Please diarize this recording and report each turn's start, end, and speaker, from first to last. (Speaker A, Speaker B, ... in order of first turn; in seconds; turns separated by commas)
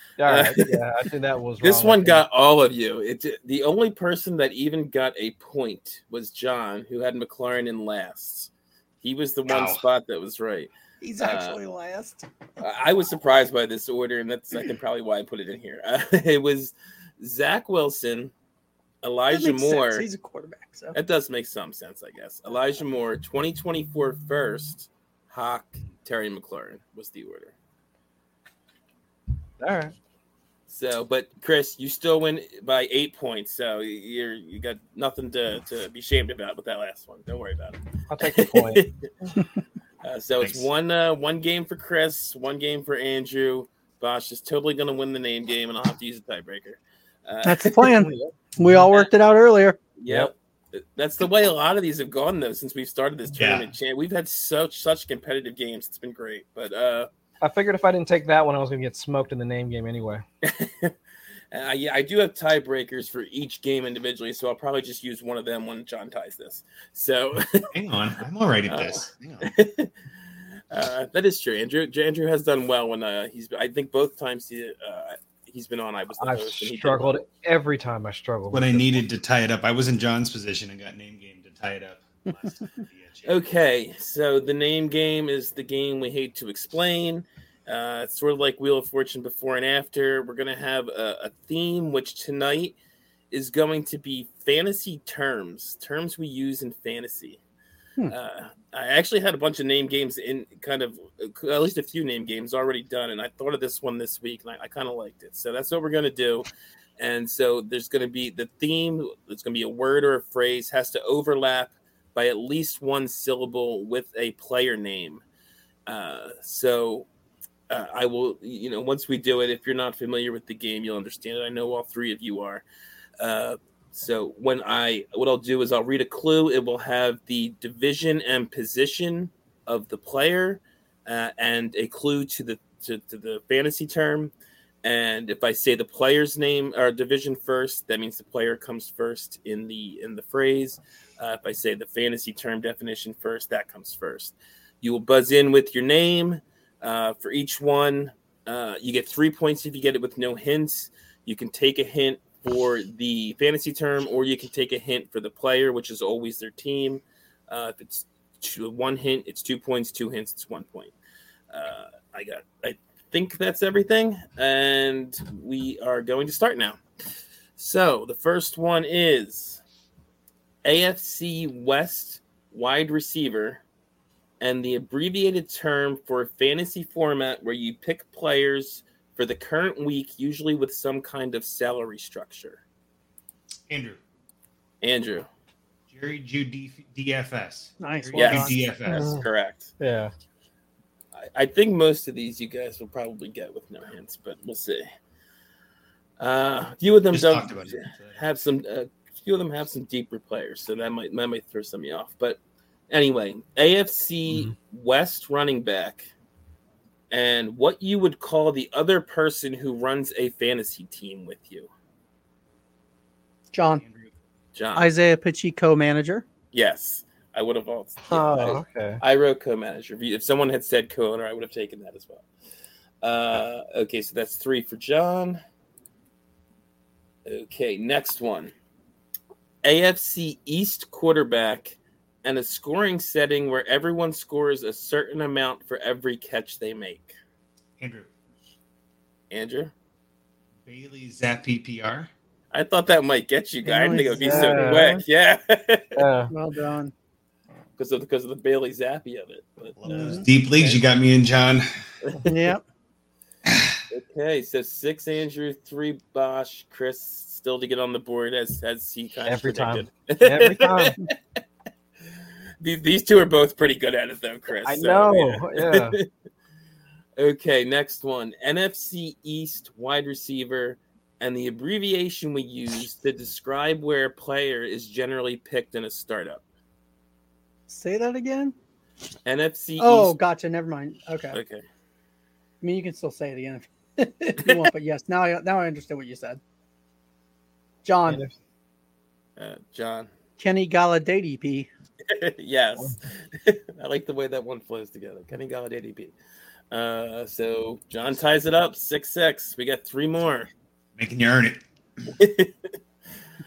Speaker A: 0.2-2.2, Speaker B: 0.2-0.8, Speaker B: 1.6-8.5, Speaker B: 9.0-11.6, Speaker C: 9.5-9.8, Speaker D: 11.0-12.2, Speaker B: 12.6-18.3, Speaker B: 19.0-20.1, Speaker D: 19.3-21.0, Speaker B: 20.9-27.5, Speaker A: 29.6-29.9, Speaker B: 30.7-38.9, Speaker A: 38.1-38.9, Speaker B: 40.0-48.0, Speaker C: 40.4-40.7, Speaker D: 47.4-49.8, Speaker A: 48.0-48.9, Speaker B: 50.0-57.1, Speaker A: 50.1-50.3, Speaker C: 53.4-53.7, Speaker A: 57.4-60.2, Speaker B: 60.4-60.9, Speaker B: 61.5-67.7, Speaker C: 67.7-69.5, Speaker B: 68.7-69.9, Speaker B: 70.7-77.2, Speaker A: 76.2-79.0, Speaker C: 78.5-83.4, Speaker B: 83.2-92.8, Speaker B: 93.3-97.4, Speaker B: 98.1-106.5, Speaker B: 107.0-115.2, Speaker B: 115.9-117.1, Speaker B: 117.7-122.6, Speaker B: 123.2-134.3, Speaker B: 134.8-160.9, Speaker B: 161.5-166.8, Speaker B: 167.6-169.6, Speaker B: 170.7-173.6, Speaker B: 174.4-182.6, Speaker C: 183.7-184.0, Speaker B: 184.8-185.3, Speaker C: 185.9-189.2, Speaker D: 187.8-188.6, Speaker B: 188.2-189.7, Speaker A: 188.9-189.2, Speaker A: 189.8-190.1, Speaker B: 191.2-194.9, Speaker B: 196.2-202.4, Speaker C: 197.1-198.2, Speaker B: 202.9-206.1, Speaker B: 207.1-211.7, Speaker D: 213.5-213.8, Speaker C: 213.8-214.1, Speaker B: 214.6-214.9, Speaker D: 214.8-216.3, Speaker B: 216.5-222.3, Speaker A: 218.1-219.0, Speaker B: 223.0-225.4, Speaker B: 227.3-228.5, Speaker B: 229.6-237.2, Speaker C: 237.8-238.1, Speaker B: 239.3-239.7, Speaker C: 240.7-242.1, Speaker B: 242.5-246.0, Speaker D: 243.7-245.0, Speaker A: 244.2-244.9, Speaker A: 246.0-246.3, Speaker D: 246.3-246.9, Speaker B: 247.8-250.8, Speaker C: 249.8-251.7, Speaker D: 249.9-250.3, Speaker B: 252.0-252.3, Speaker D: 252.2-252.6, Speaker C: 253.5-253.8, Speaker B: 253.9-261.1, Speaker A: 259.3-261.0, Speaker B: 262.6-266.1, Speaker A: 264.6-266.0, Speaker B: 267.2-276.4, Speaker D: 277.7-278.6, Speaker B: 279.3-280.1, Speaker D: 279.8-281.4, Speaker B: 281.3-281.6, Speaker D: 282.6-286.4, Speaker D: 287.9-288.2, Speaker A: 288.1-288.4, Speaker B: 289.4-290.1, Speaker D: 290.4-291.7, Speaker B: 292.1-296.1, Speaker B: 296.7-300.5, Speaker C: 301.0-301.6, Speaker B: 302.2-302.7